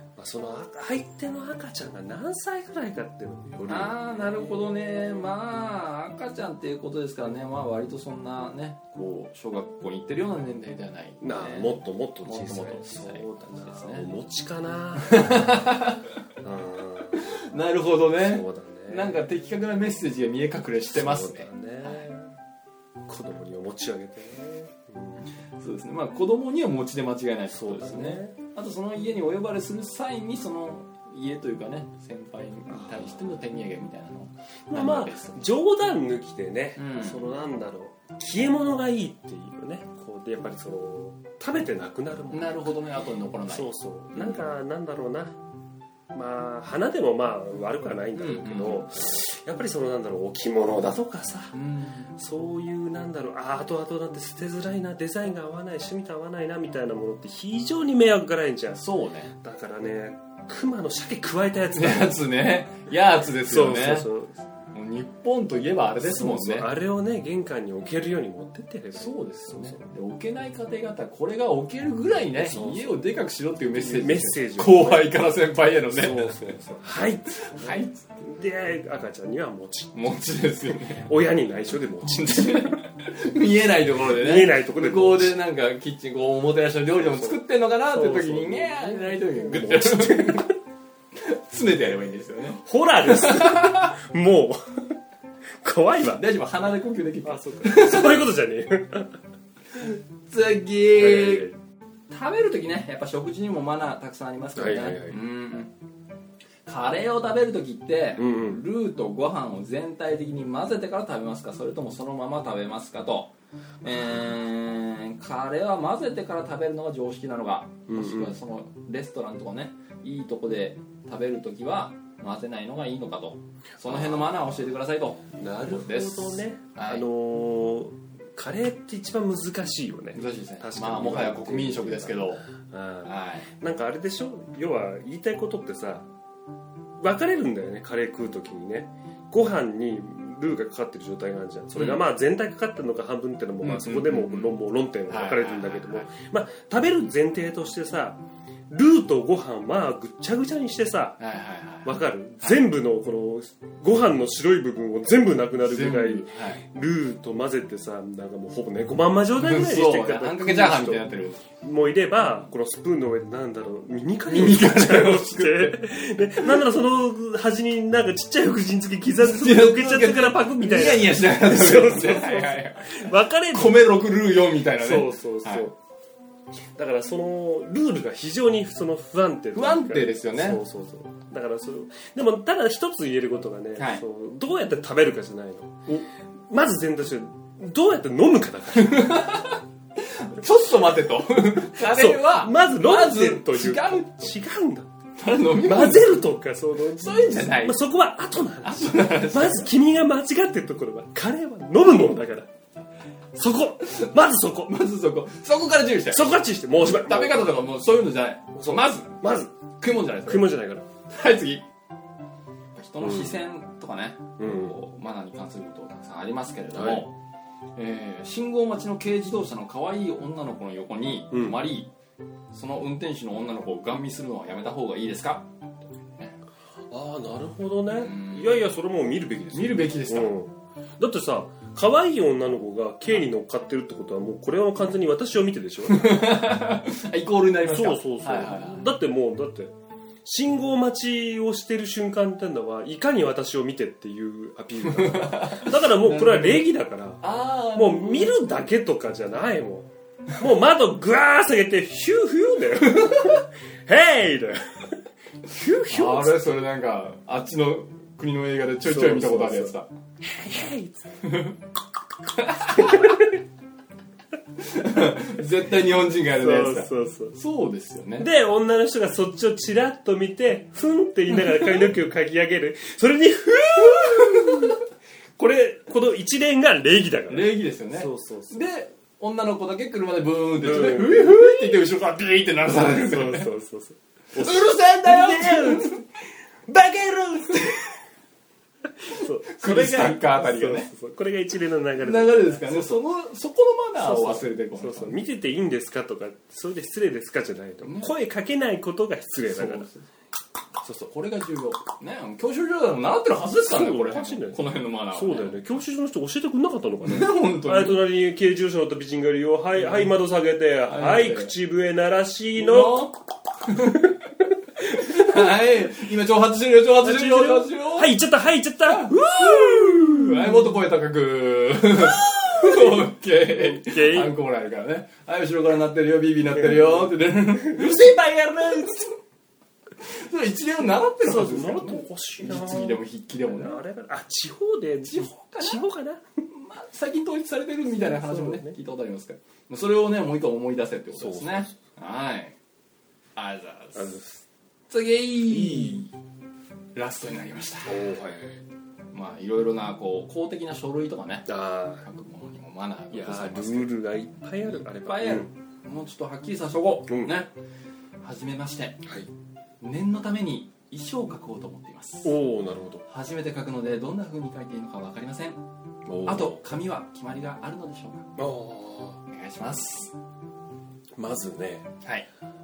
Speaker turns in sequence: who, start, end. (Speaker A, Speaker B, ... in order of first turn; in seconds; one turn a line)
Speaker A: 0.2-5.1
Speaker B: 3.7-14.1
Speaker A: 11.2-15.7
Speaker B: 15.0-16.1
Speaker A: 16.4-17.3
Speaker B: 17.1-22.1
Speaker A: 18.2-19.2
Speaker A: 20.9-22.3
Speaker A: 23.1-25.2
Speaker B: 25.5-35.4
Speaker A: 27.5-28.4
Speaker A: 32.7-33.4
Speaker A: 34.7-42.8
Speaker B: 36.8-37.2
Speaker B: 42.3-44.5
Speaker A: 43.5-45.4
Speaker A: 46.1-51.6
Speaker B: 48.1-49.0
Speaker B: 51.5-52.2
Speaker A: 52.2-62.2
Speaker B: 58.8-59.3
Speaker B: 61.7-64.1
Speaker A: 63.5-64.4
Speaker B: 64.7-66.7
Speaker A: 66.0-69.9
Speaker B: 69.0-76.6
Speaker A: 72.4-73.0
Speaker A: 73.7-75.1
Speaker A: 75.9-82.8
Speaker B: 77.3-78.1
Speaker B: 79.9-81.1
Speaker B: 82.0-90.5
Speaker A: 83.9-85.4
Speaker A: 87.0-90.5
Speaker B: 91.2-94.0
Speaker A: 92.5-95.0
Speaker A: 95.6-96.2
Speaker B: 96.1-98.3
Speaker A: 97.2-99.2
Speaker B: 100.3-101.5
Speaker A: 101.0-101.6
Speaker B: 102.1-105.7
Speaker A: 104.5-105.2
Speaker B: 106.7-127.0
Speaker A: 108.2-108.6
Speaker A: 113.9-114.3
Speaker A: 117.9-118.4
Speaker A: 123.8-124.6
Speaker A: 125.4-136.1
Speaker B: 130.1-132.5
Speaker B: 133.0-133.5
Speaker A: 137.0-151.2
Speaker B: 141.8-142.0
Speaker B: 143.6-146.1
Speaker B: 151.2-152.6
Speaker A: 151.8-174.0
Speaker B: 155.7-156.6
Speaker B: 159.3-161.5
Speaker B: 162.2-162.5
Speaker B: 164.3-166.6
Speaker B: 169.2-175.7
Speaker A: 174.8-175.8
Speaker A: 176.8-189.3
Speaker B: 179.5-180.6
Speaker B: 188.8-194.4
Speaker A: 191.8-194.9
Speaker B: 195.2-196.2
Speaker A: 195.5-202.5
Speaker B: 197.0-197.8
Speaker B: 198.6-199.7
Speaker A: 203.3-204.8
Speaker B: 204.7-209.2
Speaker A: 206.1-207.5
Speaker A: 208.6-209.5
Speaker B: 209.8-210.5
Speaker A: 210.2-210.9
Speaker B: 211.1-211.7
Speaker B: 212.8-217.1
Speaker A: 213.0-213.4
Speaker A: 214.4-214.8
Speaker A: 216.7-217.1
Speaker B: 217.8-221.9
Speaker A: 221.3-221.6
Speaker B: 222.5-225.5
Speaker A: 226.9-236.2
Speaker B: 228.0-228.7
Speaker B: 229.5-230.4
Speaker B: 235.9-238.9
Speaker A: 237.6-256.4
Speaker B: 244.8-246.7
Speaker B: 247.2-248.6
Speaker B: 252.8-253.4
Speaker B: 255.9-259.9
Speaker A: 258.8-261.2
Speaker B: 261.2-261.6
Speaker B: 262.3-263.4
Speaker A: 262.7-263.3
Speaker B: 264.6-268.3
Speaker A: 266.3-267.4
Speaker A: 268.2-274.8
Speaker B: 271.3-271.9
Speaker B: 273.8-274.8
Speaker A: 275.4-278.6
Speaker B: 277.3-283.5
Speaker A: 280.6-281.8
Speaker A: 282.7-286.0
Speaker B: 284.4-286.0
Speaker A: 286.7-287.9
Speaker A: 288.9-293.0
Speaker B: 289.5-290.9
Speaker B: 292.0-295.2
Speaker A: 294.0-299.9
Speaker B: 297.8-298.1
Speaker B: 299.4-300.1
Speaker B: 300.8-305.7
Speaker A: 303.5-304.6
Speaker A: 305.1-313.1
Speaker B: 307.1-308.1
Speaker B: 309.8-310.1
Speaker B: 310.9-311.5
Speaker B: 312.6-314.1
Speaker A: 313.7-314.1
Speaker A: 314.8-315.5
Speaker B: 314.8-318.2
Speaker A: 317.0-320.8
Speaker B: 318.9-329.2
Speaker A: 322.1-324.4
Speaker A: 326.6-327.0
Speaker A: 327.7-328.0
Speaker B: 330.0-333.8
Speaker A: 331.2-336.2
Speaker B: 335.1-335.9
Speaker B: 336.5-342.6
Speaker A: 337.9-338.8
Speaker A: 341.1-341.8
Speaker B: 343.4-344.2
Speaker A: 343.9-344.4
Speaker B: 344.9-346.1
Speaker A: 345.5-346.0
Speaker B: 346.9-348.0
Speaker A: 347.9-348.6
Speaker B: 349.1-351.5
Speaker A: 351.5-352.1
Speaker B: 352.0-357.5
Speaker A: 353.1-355.5
Speaker A: 357.1-357.4
Speaker B: 358.2-359.0
Speaker A: 359.0-359.3
Speaker B: 359.8-362.4
Speaker A: 362.2-363.0
Speaker B: 363.1-365.6
Speaker A: 366.1-366.7
Speaker B: 366.2-368.3
Speaker A: 368.4-369.2
Speaker B: 369.3-370.1
Speaker A: 371.2-371.9